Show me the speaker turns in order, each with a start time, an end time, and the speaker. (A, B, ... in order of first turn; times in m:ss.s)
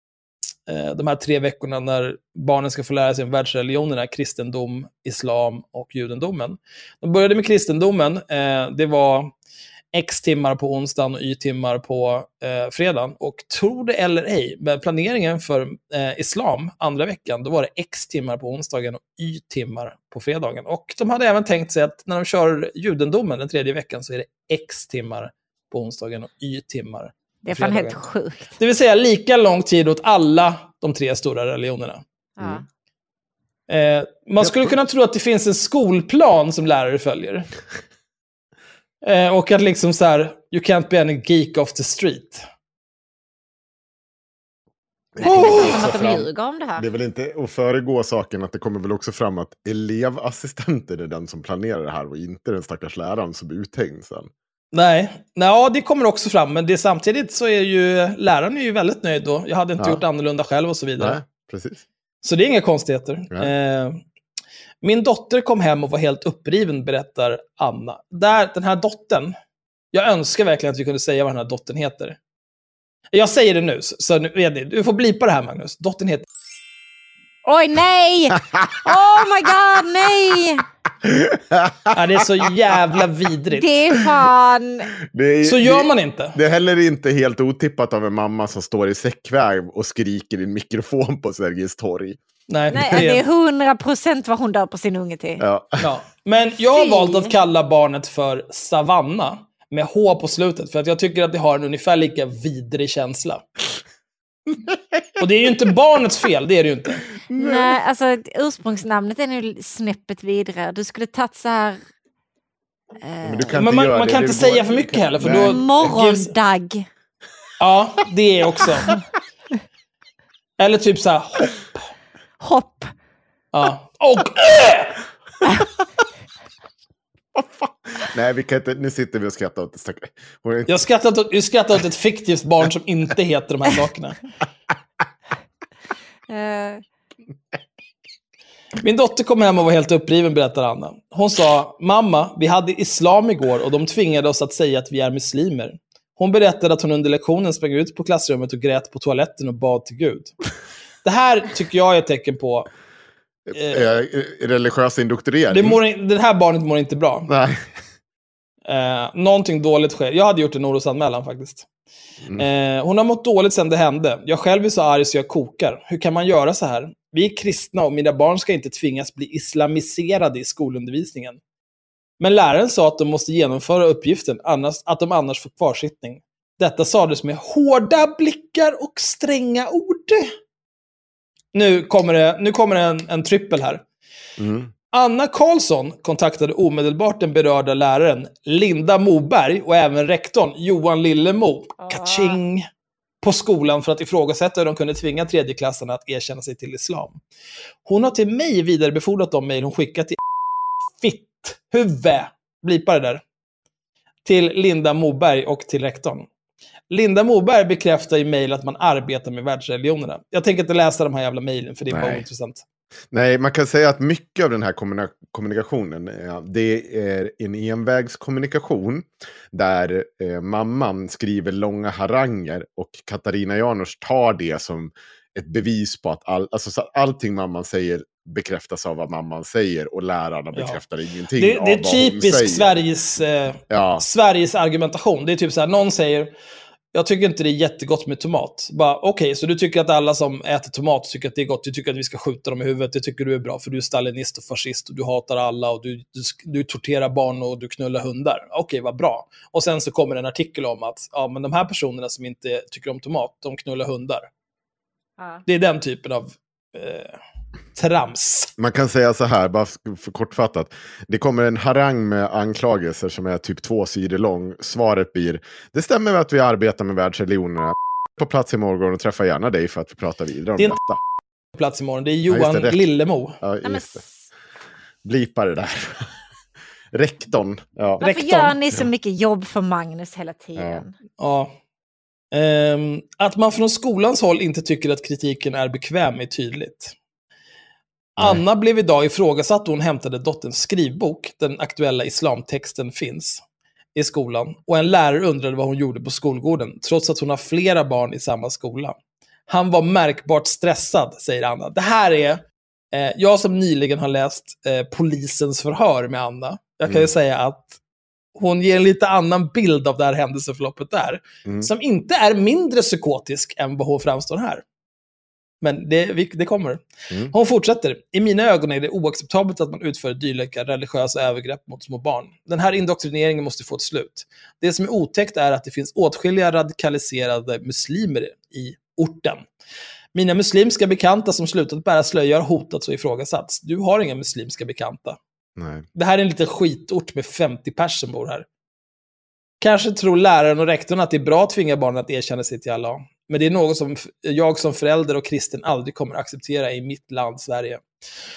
0:00.7-0:09.3 A
0:09.9-0:28.0 A
0:27.4-0:28.5 B
0:28.6-0:32.0 A
0:32.4-0:32.6 B
0:32.4-0:32.6 C
0:33.7-0:37.5 A
0:34.4-0:34.7 C
0:39.0-0:42.4 A
0:45.2-0:54.3 C
0:45.2-0:46.9 B
0:45.2-0:45.9 A
0:54.7-1:01.2 A
0:59.8-1:00.0 C
1:01.0-1:01.8 C
1:02.2-1:04.0 A
1:04.8-1:09.3 A
1:09.9-1:12.2 A
1:13.1-1:16.3 A
1:17.4-1:20.6 B
1:21.0-1:21.8 C
1:21.9-1:23.7 A
1:23.5-1:24.9 B
1:25.1-1:32.2 C
1:25.4-1:26.4 A
1:32.5-1:33.2 A
1:32.7-1:35.4 B
1:35.4-1:35.8 C
1:35.8-1:43.4 A
1:36.7-1:37.3 B
1:45.2-1:47.1 A
1:47.3-1:47.8 C
1:47.4-1:51.8 B
1:53.0-1:53.6 B
1:53.2-1:55.9 C
1:53.5-1:56.3 A
1:55.2-1:56.9 B
1:57.6-1:59.0 A
2:00.6-2:01.7 A
2:02.4-2:02.9 B
2:03.5-2:05.0 A
2:07.4-2:10.7 C
2:10.7-2:14.2 A
2:16.3-2:16.8 B
2:18.8-2:30.3 A
2:31.0-2:32.7 A
2:33.5-2:35.8 C
2:33.5-2:33.9 A
2:35.5-2:37.3 A
2:37.3-2:37.6 C
2:38.7-2:41.7 A
2:42.4-2:51.4 A
2:52.2-3:00.3 A
3:01.5-3:03.8 A
3:04.4-3:04.7 C
3:04.9-3:12.6 A
3:11.8-3:12.4 B
3:13.2-3:17.2 A
3:17.9-3:20.2 A
3:21.0-3:23.2 A
3:24.2-3:26.3 A
3:26.9-3:32.6 A
3:31.9-3:32.2 C
3:33.1-3:52.8 C
3:50.6-3:50.8 A
3:51.4-3:56.3 A
3:53.7-3:54.0 C
3:56.9-4:14.3 A
4:15.5-4:17.2 A
4:17.8-4:18.5 A
4:18.6-4:31.0 C
4:31.6-4:33.4 A
4:32.3-4:32.8 C
4:33.4-4:34.0 C
4:33.6-4:34.1 B
4:35.0-4:36.1 C
4:36.9-4:38.0 C
4:38.0-4:38.6 A
4:38.0-4:40.9 B
4:40.6-4:40.8 C
4:41.2-4:41.5 A
4:42.3-4:46.9 A
4:48.2-4:48.4 C
4:48.2-4:53.4 A
4:54.0-4:59.0 A
4:59.5-5:07.8 A
5:06.8-5:07.1 C
5:08.4-5:14.6 A
5:11.4-5:11.7 C
5:15.6-5:29.4 A
5:30.1-5:35.2 A
5:35.6-5:35.8 C
5:36.0-5:38.5 A
5:39.6-5:47.8 A